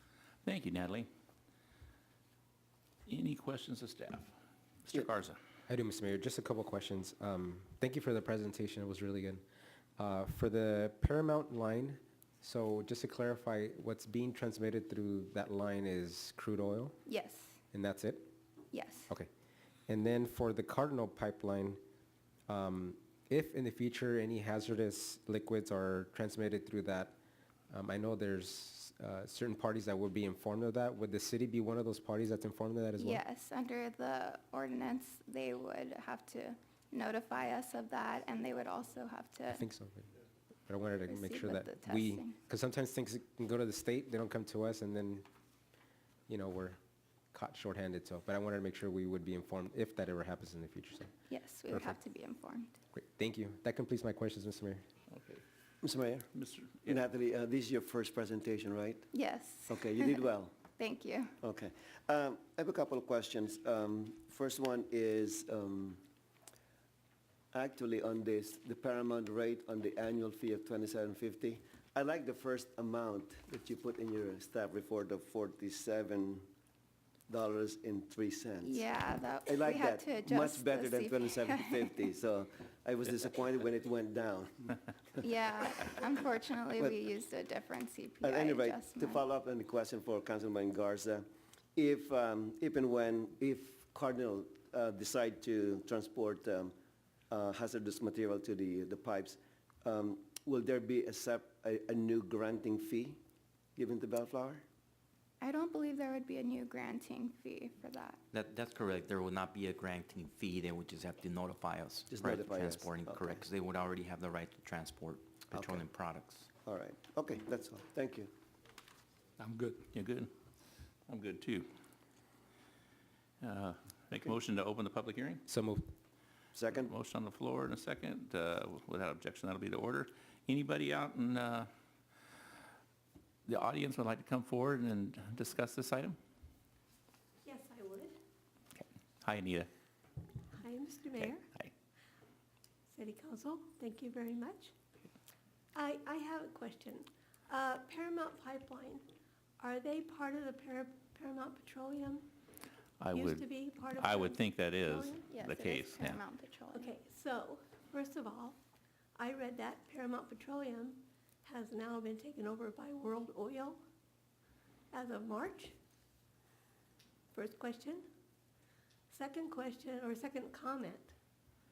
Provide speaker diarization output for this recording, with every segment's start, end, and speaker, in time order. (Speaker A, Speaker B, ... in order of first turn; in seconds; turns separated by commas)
Speaker A: 0.4-1.1, Speaker A: 3.1-4.3, Speaker A: 4.9-5.4, Speaker B: 5.7-9.4, Speaker B: 10.0-17.0, Speaker C: 17.1-17.6, Speaker B: 17.7-18.3, Speaker C: 18.7-19.1, Speaker B: 19.9-21.8, Speaker B: 22.5-27.2, Speaker B: 27.7-33.2, Speaker C: 33.0-39.6, Speaker B: 39.5-40.1, Speaker B: 40.7-45.3, Speaker C: 41.1-42.4, Speaker B: 46.3-46.8, Speaker B: 47.3-51.1, Speaker C: 51.3-52.8, Speaker B: 51.7-52.0, Speaker B: 52.9-54.8, Speaker A: 55.1-55.4, Speaker D: 55.8-56.3, Speaker A: 56.3-57.0, Speaker D: 56.9-59.1, Speaker C: 59.1-61.3, Speaker D: 59.7-60.5, Speaker D: 61.4-66.0, Speaker D: 67.5-76.5, Speaker D: 77.3-78.8, Speaker C: 78.6-82.0, Speaker D: 79.5-84.8, Speaker C: 85.2-89.2, Speaker D: 88.2-96.7, Speaker D: 97.3-103.2, Speaker D: 103.8-104.7, Speaker C: 105.4-108.2, Speaker E: 108.3-116.5, Speaker D: 112.1-113.4, Speaker D: 115.5-115.8, Speaker D: 116.6-118.3, Speaker A: 119.9-120.3, Speaker A: 121.1-121.7, Speaker A: 123.4-125.4, Speaker B: 125.5-125.9, Speaker D: 126.5-126.9, Speaker A: 126.8-131.7, Speaker A: 133.5-136.2, Speaker F: 137.4-138.2, Speaker A: 138.8-139.7, Speaker F: 140.5-141.4, Speaker A: 141.2-141.7, Speaker F: 142.9-144.7, Speaker F: 145.7-149.1, Speaker F: 149.6-152.3, Speaker A: 153.0-156.2, Speaker F: 153.1-154.4, Speaker F: 154.9-155.2, Speaker C: 155.3-156.9, Speaker F: 156.7-158.6, Speaker F: 159.2-163.8, Speaker F: 164.9-165.8, Speaker F: 167.3-168.1, Speaker F: 169.1-171.2